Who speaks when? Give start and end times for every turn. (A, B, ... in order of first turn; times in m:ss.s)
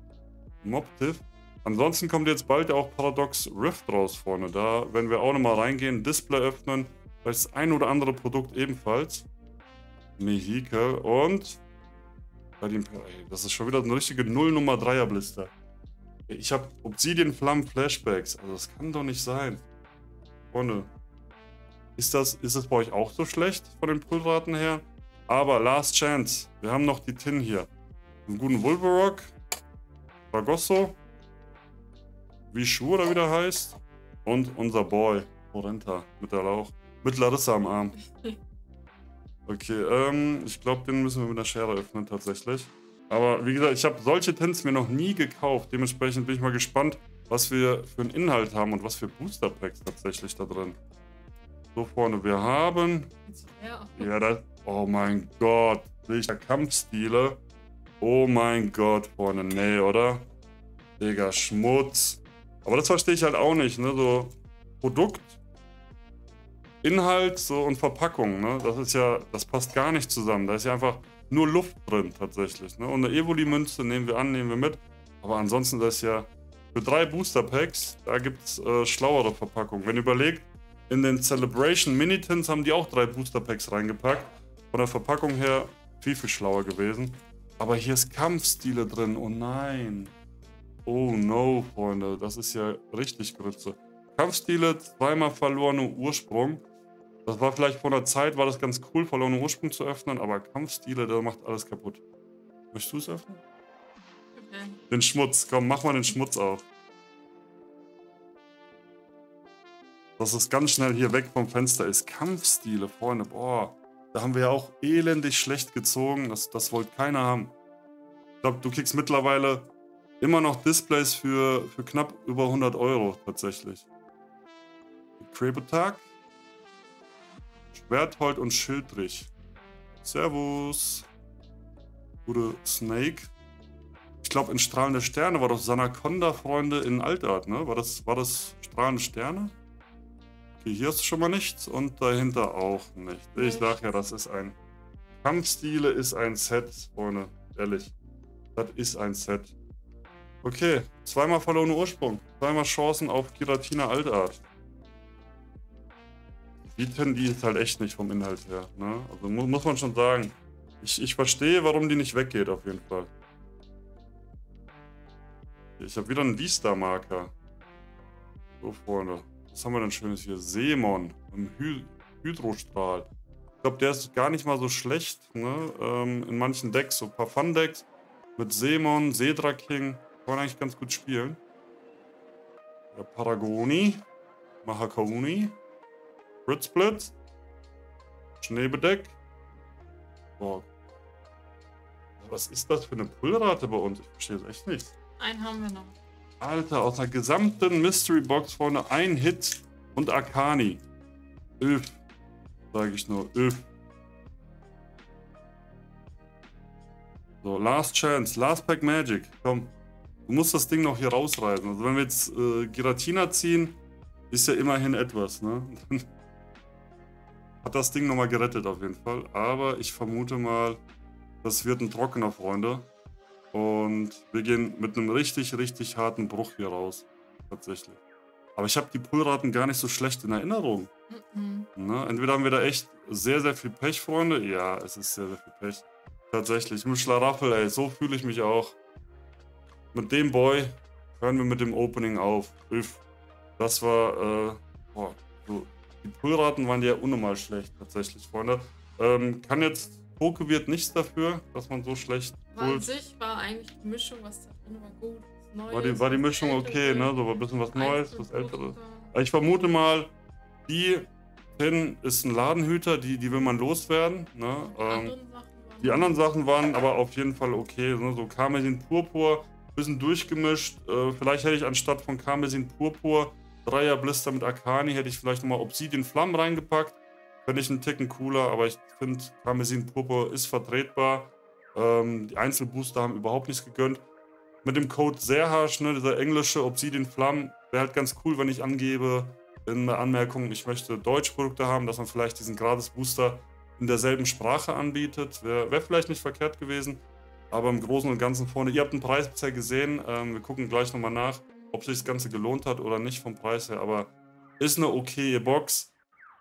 0:00.6-0:09.3 A
0:10.2-0:11.6 A
0:12.6-0:15.5 A
0:16.3-0:19.6 A
0:20.5-0:20.9 A
0:22.0-0:27.7 A
0:28.3-0:29.3 A
0:30.3-0:31.0 A
0:32.5-0:38.0 A
0:39.5-0:50.8 A
0:51.8-0:53.1 A
0:53.3-0:54.1 B
0:54.0-0:57.4 A
0:58.0-1:00.3 A
1:01.0-1:05.4 A
1:06.8-1:30.1 A
1:30.9-1:36.6 A
1:37.3-1:42.0 A
1:42.7-1:43.4 A
1:44.4-1:44.8 B
1:44.9-1:46.6 A
1:50.2-1:57.5 A
1:58.4-2:03.9 A
2:05.2-2:06.0 A
2:07.7-2:09.3 A
2:10.0-2:11.1 A
2:12.3-2:13.3 A
2:14.2-2:19.5 A
2:20.6-2:24.6 A
2:23.4-2:23.8 B
2:25.2-2:27.9 A
2:28.6-2:29.6 A
2:30.4-2:34.4 A
2:36.6-2:43.1 A
2:45.8-2:47.3 A
2:48.6-2:53.1 A
2:53.6-2:57.9 A
2:58.4-3:01.4 A
3:02.9-3:04.0 A
3:04.6-3:05.6 A
3:06.5-3:07.1 A
3:08.4-3:09.2 A
3:10.4-3:10.7 A
3:12.2-3:14.9 A
3:15.2-3:16.0 B
3:16.4-3:20.8 A
3:21.6-3:22.0 A
3:22.7-3:23.7 A
3:27.4-3:29.7 A
3:30.3-3:33.8 A
3:34.3-3:36.1 A
3:37.6-3:40.8 A
3:41.4-3:42.9 A
3:43.5-3:48.0 A
3:48.6-3:50.9 A
3:51.1-3:51.7 B
3:51.8-3:58.8 A
3:59.9-4:03.0 A
4:03.6-4:12.9 A
4:12.5-4:19.1 B
4:15.7-4:20.1 A
4:20.7-4:25.2 A
4:24.7-4:26.2 B
4:25.8-4:44.0 A
4:44.6-5:05.9 A